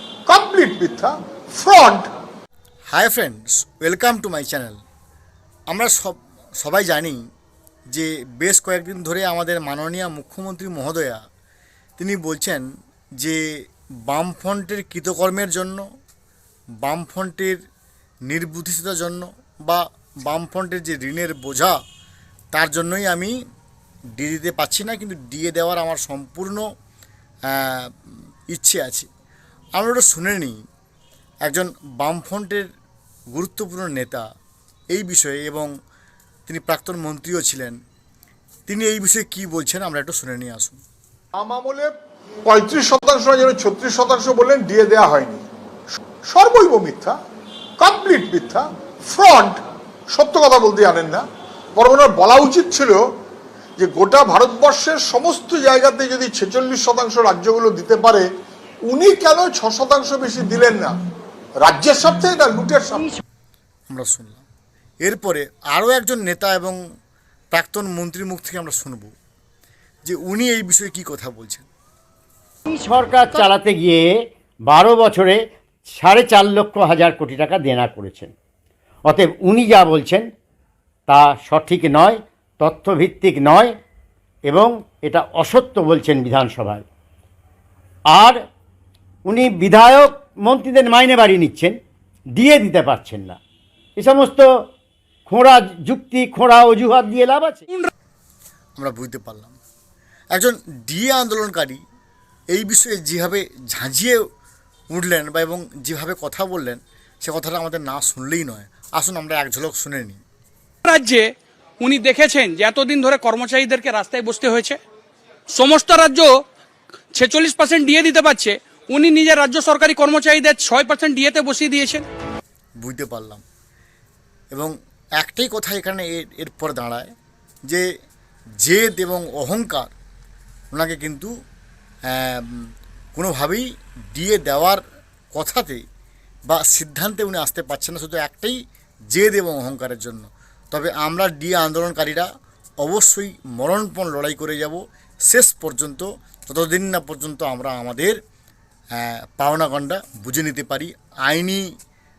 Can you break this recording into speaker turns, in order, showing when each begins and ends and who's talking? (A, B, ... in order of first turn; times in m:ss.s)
0:00.3-0:02.1 A
0:02.9-0:04.8 B
0:05.7-0:07.2 B
0:07.9-0:11.2 B
0:12.0-0:12.6 B
0:14.0-0:15.8 B
0:16.8-0:17.6 B
0:18.3-0:21.8 B
0:22.5-0:23.3 B
0:24.2-0:26.6 B
0:27.5-0:27.9 B
0:28.5-0:29.1 B
0:29.8-0:30.6 B
0:31.4-0:32.6 B
0:33.3-0:34.2 B
0:34.9-0:35.7 B
0:36.5-0:37.8 B
0:38.7-0:40.8 B
0:41.4-0:41.9 A
0:42.4-0:45.4 A
0:46.3-0:47.2 A
0:47.8-0:49.6 A
0:50.1-0:51.2 A
0:51.7-0:53.0 A
0:53.8-0:58.2 A
0:58.8-1:00.9 A
1:01.6-1:03.1 A
1:03.9-1:04.4 B
1:05.0-1:06.8 B
1:07.5-1:09.1 B
1:10.0-1:11.7 B
1:12.7-1:14.1 C
1:14.7-1:18.3 C
1:19.0-1:20.2 C
1:21.1-1:23.7 C
1:24.5-1:26.8 C
1:28.1-1:28.4 C
1:29.2-1:31.8 C
1:32.3-1:33.4 C
1:34.0-1:34.5 C
1:35.3-1:37.6 C
1:38.8-1:39.6 B
1:40.3-1:41.8 B
1:42.5-1:44.2 B
1:44.9-1:50.2 B
1:50.8-1:51.2 D
1:51.8-1:54.8 D
1:55.5-1:56.3 D
1:57.1-2:02.0 D
2:02.8-2:03.4 B
2:04.5-2:07.1 B
2:08.6-2:09.9 B
2:10.7-2:11.3 B
2:12.1-2:14.8 B
2:15.3-2:15.8 B
2:16.5-2:18.6 B
2:19.1-2:22.2 B
2:22.8-2:28.2 B
2:29.0-2:31.6 B